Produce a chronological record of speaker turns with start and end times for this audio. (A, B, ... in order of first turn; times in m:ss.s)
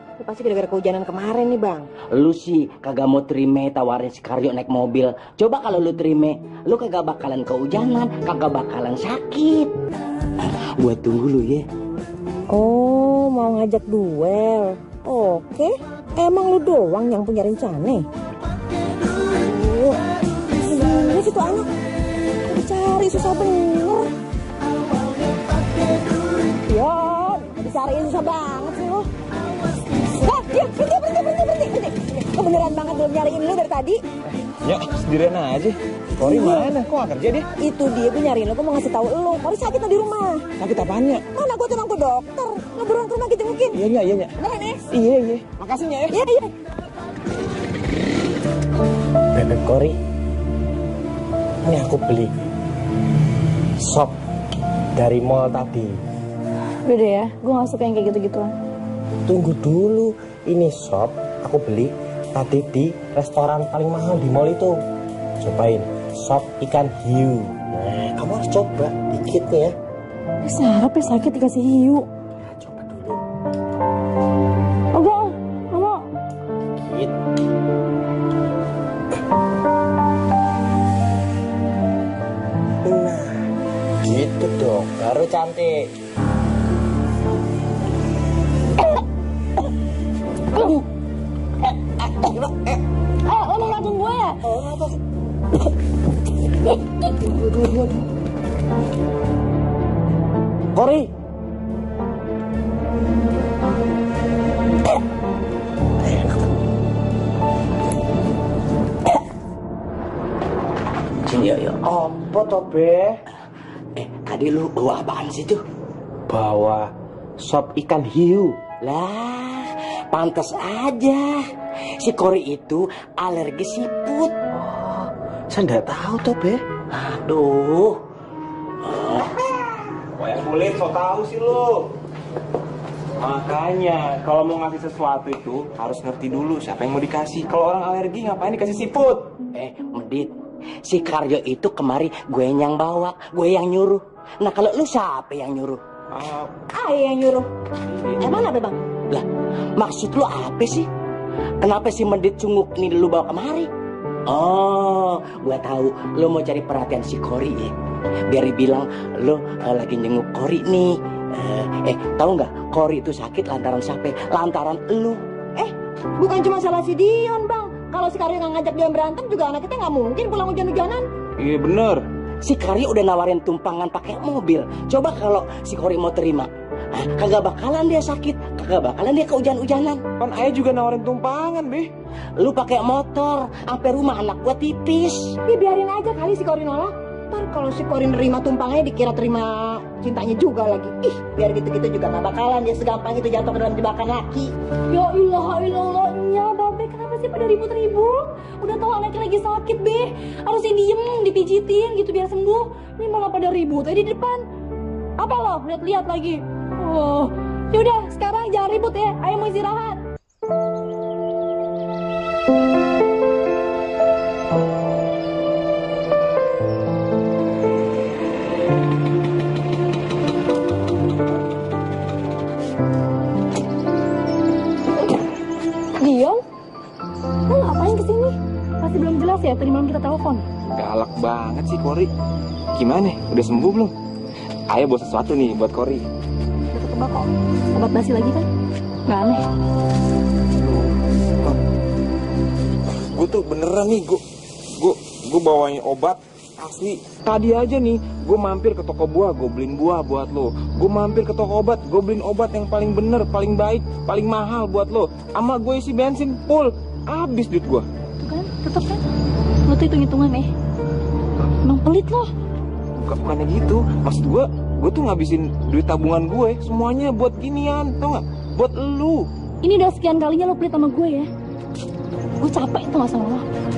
0:00.2-0:01.9 A
0:02.1-0:09.7 B
0:10.4-0:11.6 B
0:12.5-0:18.0 A
0:19.4-0:20.0 A
0:20.6-0:21.7 A
0:22.4-0:24.1 A
0:26.7-0:29.1 A
0:30.1-0:34.0 A
0:34.6-0:37.4 C
0:36.2-0:36.7 A
0:37.6-0:40.4 A
0:40.6-0:41.2 C
0:41.3-0:43.8 A
0:43.7-0:44.3 C
0:44.4-0:44.9 A
0:44.9-0:46.2 C
0:46.1-0:46.5 A
0:49.3-0:50.0 D
0:51.6-0:52.3 D
0:53.8-0:54.2 D
0:54.9-0:56.0 D
0:56.8-0:58.5 E
0:59.3-1:04.8 D
1:05.4-1:09.7 D
1:10.4-1:12.0 E
1:12.6-1:13.2 D
1:14.9-1:16.0 E
1:16.8-1:17.1 D
1:22.8-1:23.4 D
1:24.0-1:25.8 D
1:30.5-1:30.8 E
1:33.2-1:34.4 E
1:34.4-1:34.9 D
1:51.2-1:51.8 B
1:51.8-1:53.2 D
1:54.0-1:55.6 B
1:56.3-1:56.9 D
1:57.4-1:58.6 D
1:58.8-2:01.4 B
2:02.0-2:04.3 B
2:04.5-2:06.6 D
2:06.9-2:08.0 B
2:08.8-2:09.7 B
2:10.0-2:11.9 C
2:13.2-2:19.3 C
2:19.5-2:20.3 B
2:20.8-2:25.8 B
2:26.1-2:26.5 C
2:26.7-2:27.5 A
2:28.2-2:28.8 A
2:29.1-2:30.9 B
2:31.6-2:33.7 B
2:34.3-2:37.7 B
2:38.3-2:45.2 B
2:45.6-2:51.1 A
2:51.4-2:52.0 C
2:52.4-3:00.0 B
3:00.2-3:01.9 C
3:02.4-3:05.4 B
3:05.4-3:14.5 A
3:14.9-3:24.4 E
3:25.2-3:30.0 E
3:46.0-3:46.4 E
3:47.5-3:50.4 E
3:50.7-3:52.1 C
3:52.8-3:53.9 C
3:54.7-3:56.0 C
3:56.7-3:58.5 E
3:59.1-3:59.4 E
4:03.1-4:04.2 C
4:04.8-4:17.8 C
4:18.2-4:19.0 E
4:19.6-4:20.5 E
4:21.6-4:22.3 E
4:23.0-4:29.3 C
4:29.6-4:31.3 E
4:32.4-4:33.4 E